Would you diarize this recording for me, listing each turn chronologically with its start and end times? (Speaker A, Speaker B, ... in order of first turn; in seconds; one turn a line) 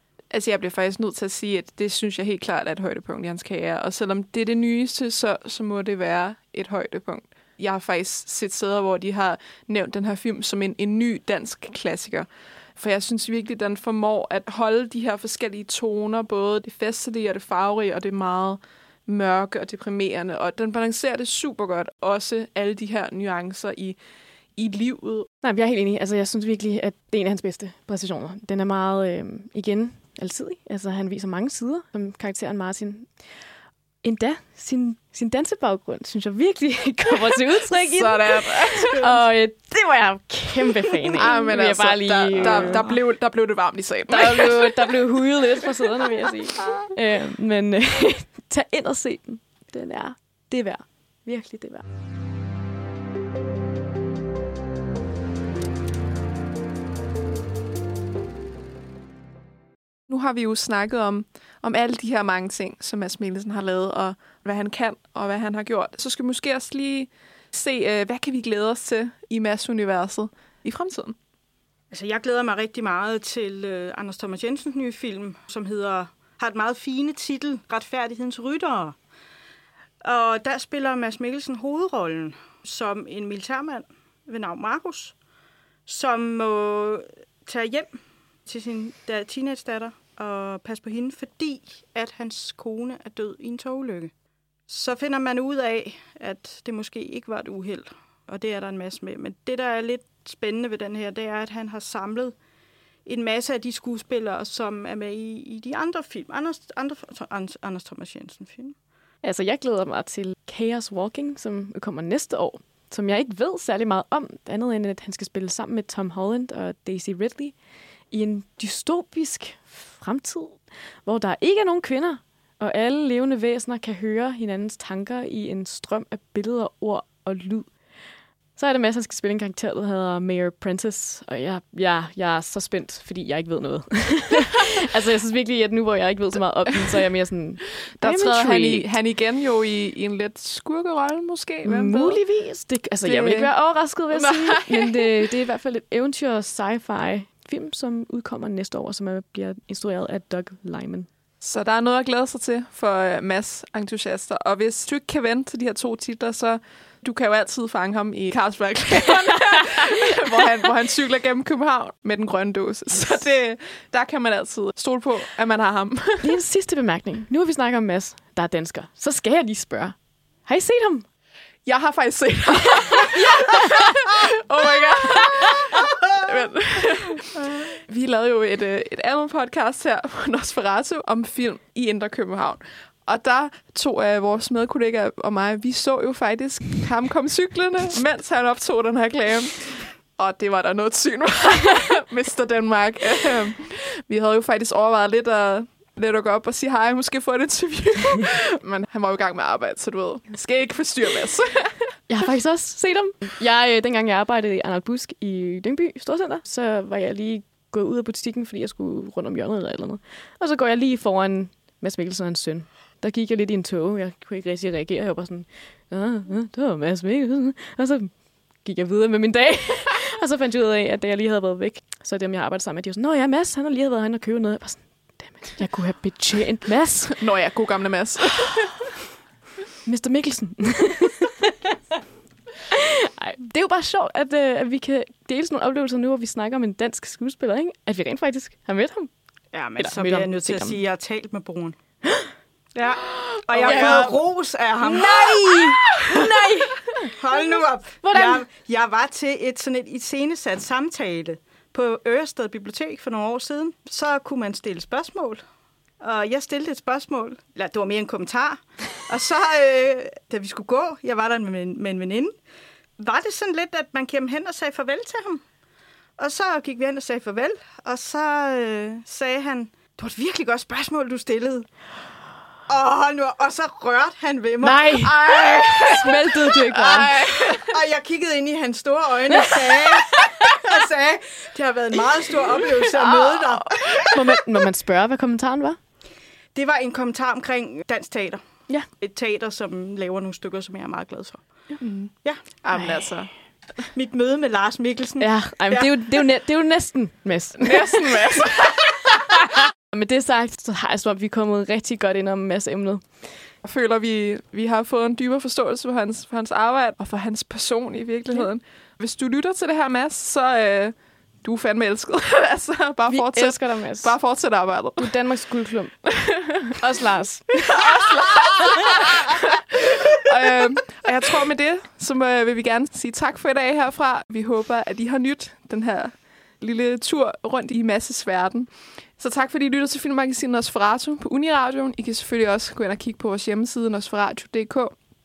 Speaker A: 0.3-24.0
Speaker A: 24.6-25.3
Speaker B: 25.4-33.3
Speaker B: 34.0-42.9
Speaker A: 37.7-39.1
Speaker A: 41.1-45.0
Speaker C: 42.4-42.9
Speaker B: 44.1-51.8
Speaker A: 60.1-71.2
Speaker C: 71.9-79.0
Speaker C: 80.0-85.1
Speaker C: 85.9-94.1
Speaker C: 94.7-102.3
Speaker C: 103.0-108.8
Speaker B: 109.2-117.5
Speaker B: 118.1-127.8
Speaker B: 128.6-138.9
Speaker A: 137.9-142.2
Speaker B: 141.6-151.1
Speaker A: 143.0-145.1
Speaker A: 151.4-166.3
Speaker B: 166.2-171.1
Speaker A: 171.6-201.8
Speaker B: 173.2-173.8
Speaker B: 202.1-227.2
Speaker A: 227.2-228.9
Speaker B: 229.8-231.5
Speaker B: 233.1-239.1
Speaker C: 239.5-241.8
Speaker B: 239.8-240.8
Speaker C: 242.7-246.0
Speaker A: 243.5-244.1
Speaker B: 243.6-244.2
Speaker B: 244.8-248.4
Speaker C: 247.2-255.4
Speaker C: 256.0-262.3
Speaker C: 263.0-265.4
Speaker C: 266.2-271.9
Speaker C: 272.7-276.0
Speaker B: 274.6-277.1
Speaker A: 275.2-276.1
Speaker A: 276.7-277.7
Speaker C: 277.1-284.2
Speaker B: 279.3-279.7
Speaker B: 283.0-285.8
Speaker C: 286.5-291.6
Speaker A: 291.8-293.9
Speaker B: 292.7-293.0
Speaker C: 293.9-296.2
Speaker B: 295.2-298.5
Speaker A: 297.6-298.8
Speaker B: 299.9-303.5
Speaker A: 303.6-315.3
Speaker B: 313.1-318.7
Speaker A: 316.1-316.5
Speaker A: 317.6-319.6
Speaker A: 320.1-334.9